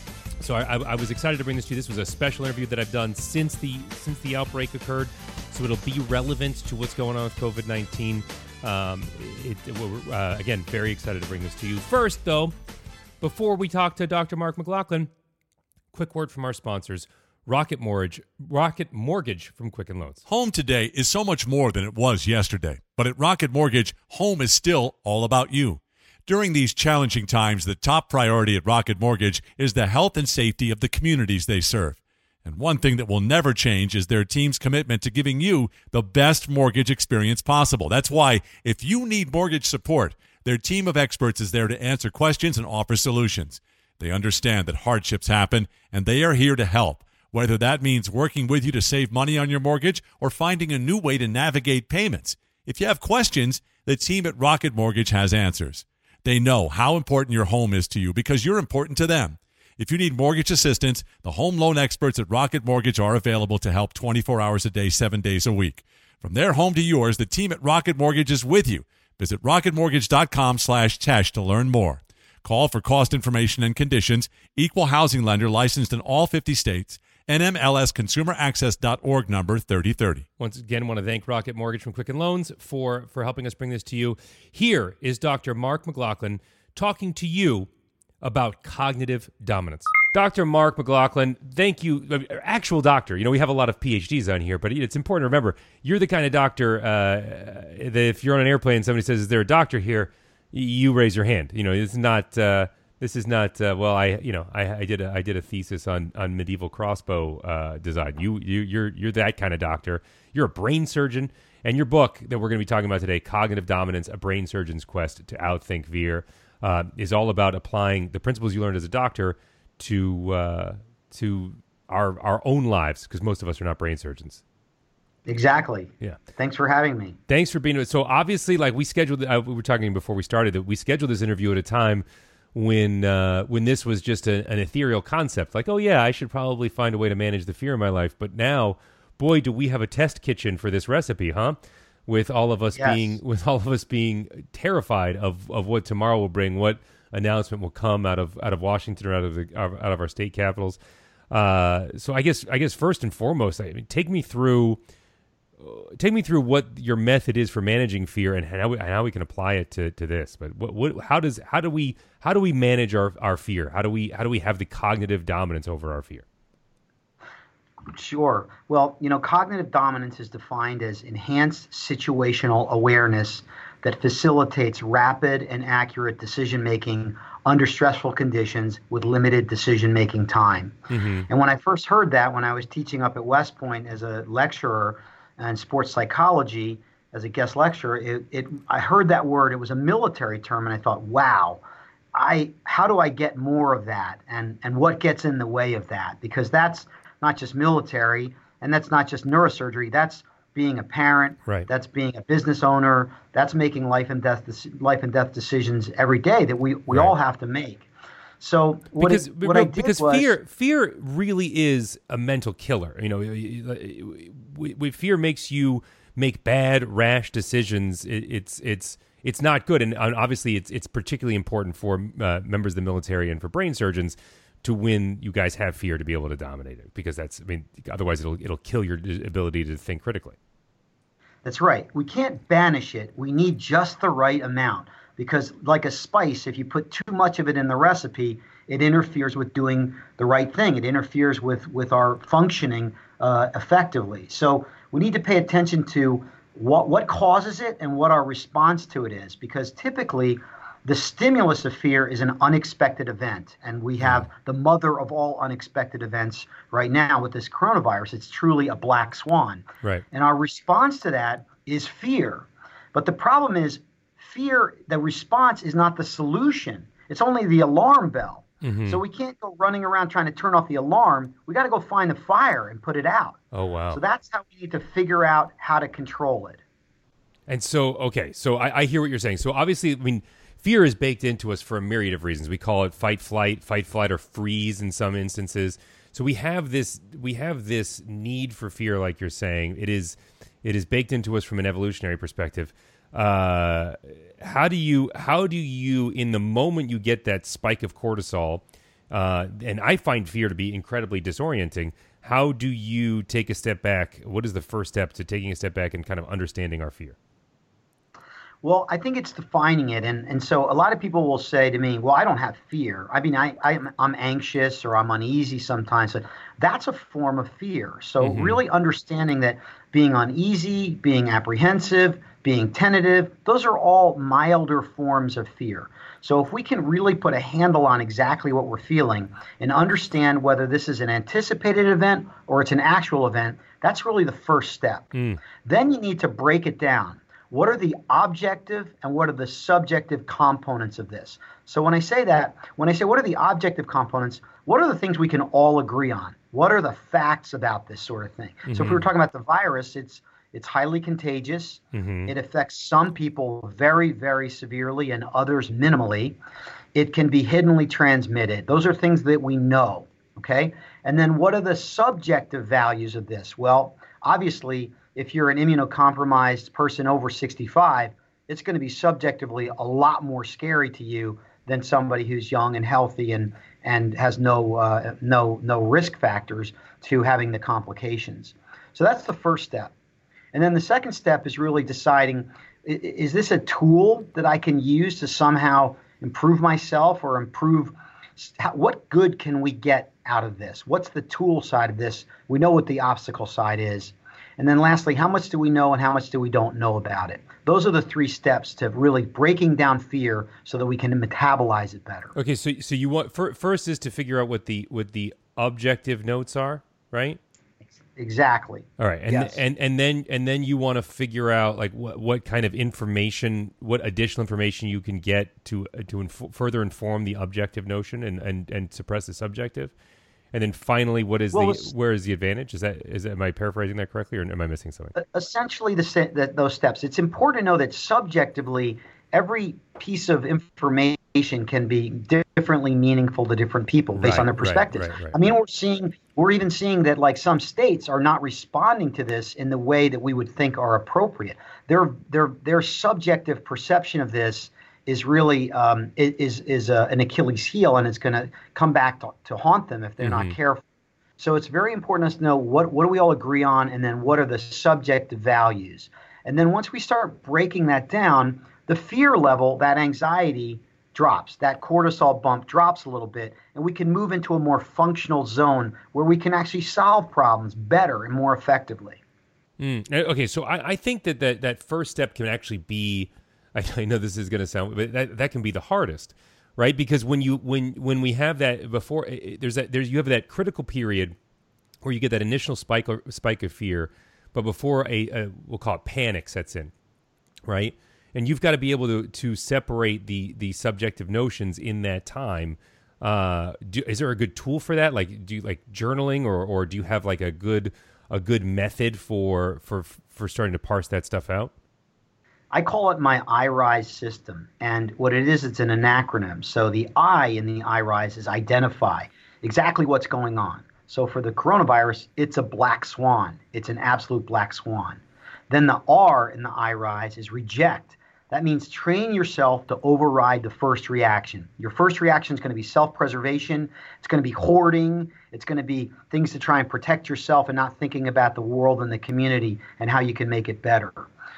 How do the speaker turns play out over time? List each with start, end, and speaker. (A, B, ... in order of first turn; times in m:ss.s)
0:00.4-0:12.5 A
0:13.2-0:15.1 A
0:15.9-0:20.2 A
0:20.3-1:20.2 B
1:20.4-1:27.7 A
1:28.2-2:04.4 A
2:05.2-2:07.2 C
2:07.3-2:30.8 A
2:22.8-2:23.1 C
2:31.3-2:34.8 A
2:35.6-2:46.2 A
2:47.9-3:00.8 C
3:00.9-3:01.3 A
3:01.3-3:11.6 C
3:12.1-3:27.8 C
3:28.4-3:30.3 C
3:29.0-3:50.4 A
3:51.4-4:33.4 C
4:14.0-4:14.3 A
4:28.6-4:29.0 A
4:33.5-4:34.0 A
4:33.9-4:36.6 C
4:37.5-5:07.2 A
5:08.6-5:56.4 C
5:18.2-5:18.6 A
5:35.1-5:35.4 A
5:48.6-5:49.0 A
5:51.9-5:52.3 A
5:56.9-6:19.9 C
6:20.5-6:42.3 C
6:42.4-6:47.4 A
6:47.8-6:49.6 C
6:49.0-6:59.9 A
7:00.5-7:05.1 A
7:01.5-7:01.9 C
7:05.1-7:30.8 C
7:14.1-7:15.4 A
7:30.2-7:30.5 A
7:31.4-7:49.2 C
7:49.8-8:01.4 A
8:02.0-8:06.9 A
8:07.7-8:21.7 A
8:22.7-8:51.3 C